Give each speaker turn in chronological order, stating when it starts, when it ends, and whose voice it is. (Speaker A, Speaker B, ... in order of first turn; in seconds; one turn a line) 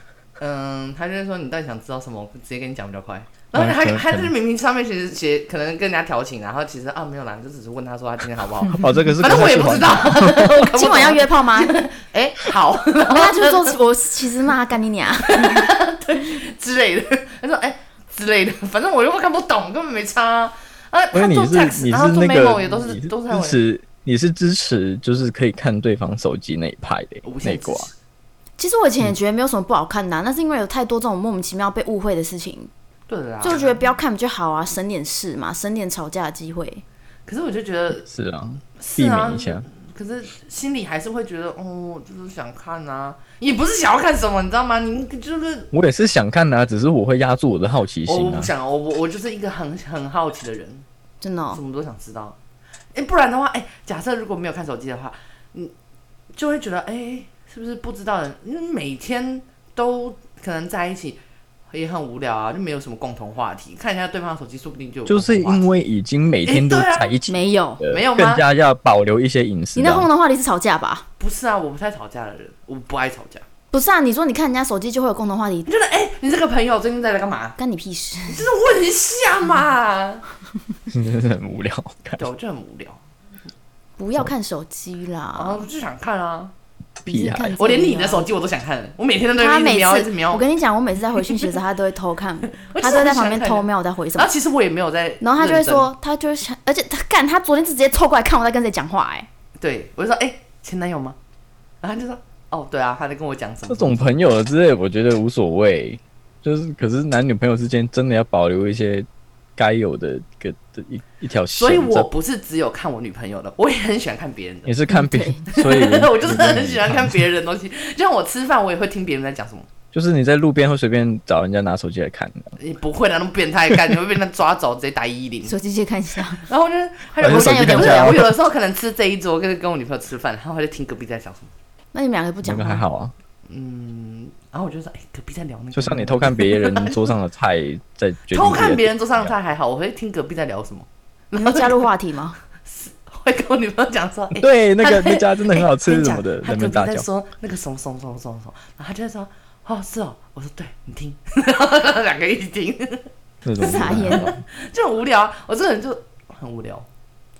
Speaker A: 0.4-13.8
Speaker B: 3.5-4.3
Speaker B: 8.7-10.5
Speaker C: 10.2-11.9
Speaker C: 13.1-15.7
Speaker A: 15.2-23.6
Speaker B: 21.1-27.9
Speaker A: 27.2-27.9
Speaker C: 28.6-32.7
Speaker A: 33.1-33.8
Speaker C: 33.4-36.8
Speaker A: 37.3-38.0
Speaker B: 38.0-39.7
Speaker A: 38.8-45.7
Speaker B: 45.7-48.5
Speaker A: 48.1-50.9
Speaker C: 51.2-51.6
Speaker A: 51.5-52.4
Speaker A: 52.9-55.7
Speaker A: 56.3-61.2
Speaker A: 61.7-65.7
Speaker B: 65.1-70.1
Speaker A: 66.4-67.2
Speaker C: 67.3-67.8
Speaker A: 67.9-68.4
Speaker C: 69.8-71.0
Speaker A: 71.2-73.5
Speaker C: 73.7-75.7
Speaker A: 75.7-77.6
Speaker C: 77.6-78.5
Speaker A: 78.3-80.2
Speaker B: 80.9-82.3
Speaker A: 82.2-83.0
Speaker C: 84.0-85.7
Speaker A: 85.3-86.5
Speaker B: 87.0-87.5
Speaker C: 87.1-88.3
Speaker A: 87.5-90.4
Speaker C: 89.4-94.3
Speaker A: 91.2-91.5
Speaker A: 92.5-95.9
Speaker C: 95.2-99.3
Speaker A: 99.6-101.2
Speaker A: 101.8-104.1
Speaker B: 103.7-112.1
Speaker A: 111.6-114.8
Speaker B: 114.7-117.2
Speaker C: 114.9-115.4
Speaker A: 115.5-119.7
Speaker B: 119.9-122.6
Speaker A: 122.6-125.5
Speaker C: 125.5-126.5
Speaker A: 126.4-131.5
Speaker C: 127.2-128.2
Speaker B: 127.2-128.3
Speaker C: 131.9-132.8
Speaker B: 132.4-133.1
Speaker A: 133.5-137.1
Speaker B: 135.7-139.3
Speaker A: 138.3-141.9
Speaker C: 141.3-142.4
Speaker A: 142.6-153.1
Speaker B: 144.3-147.1
Speaker B: 153.4-154.4
Speaker C: 153.6-154.4
Speaker A: 153.7-156.9